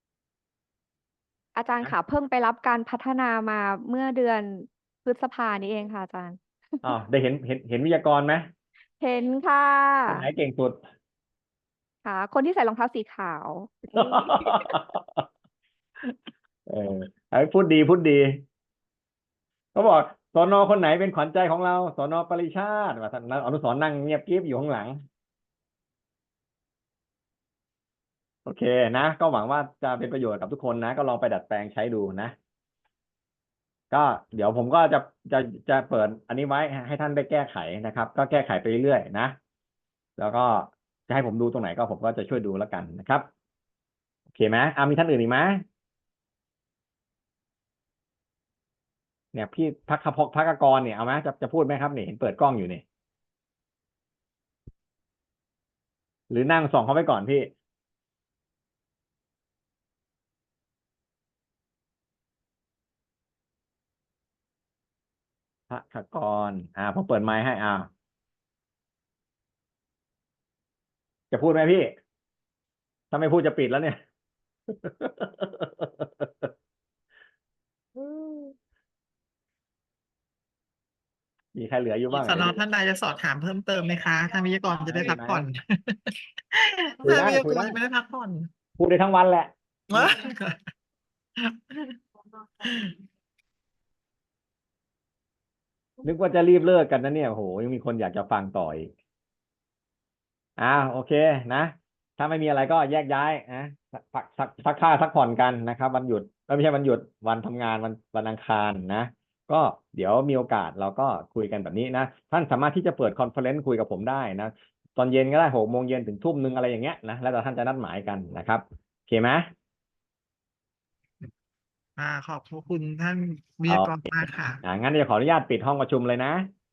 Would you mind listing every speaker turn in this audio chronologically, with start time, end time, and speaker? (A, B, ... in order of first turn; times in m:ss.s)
0:01.5-0:06.8 A
0:06.8-0:08.5 B
0:09.0-0:10.2 A
0:10.1-0:10.8 B
0:12.0-0:14.7 A
0:13.9-0:15.2 B
0:16.7-0:18.4 B
0:19.7-0:25.0 B
0:28.4-0:32.3 B
0:33.9-0:39.4 B
0:40.2-0:43.3 B
0:44.3-0:45.6 B
0:49.3-0:52.8 B
0:56.3-0:57.5 B
1:05.7-1:07.9 B
1:11.3-1:11.9 B
1:13.1-1:14.0 B
1:14.7-1:16.5 B
1:21.5-1:22.5 B
1:22.1-1:28.5 C
1:24.8-1:25.4 B
1:27.0-1:27.7 B
1:28.8-1:29.5 B
1:29.9-1:30.6 C
1:31.4-1:32.0 C
1:32.6-1:32.9 C
1:36.0-1:38.9 B
1:40.6-1:59.5 B
2:02.0-2:04.6 C
2:03.7-2:03.9 B
2:04.6-2:06.5 B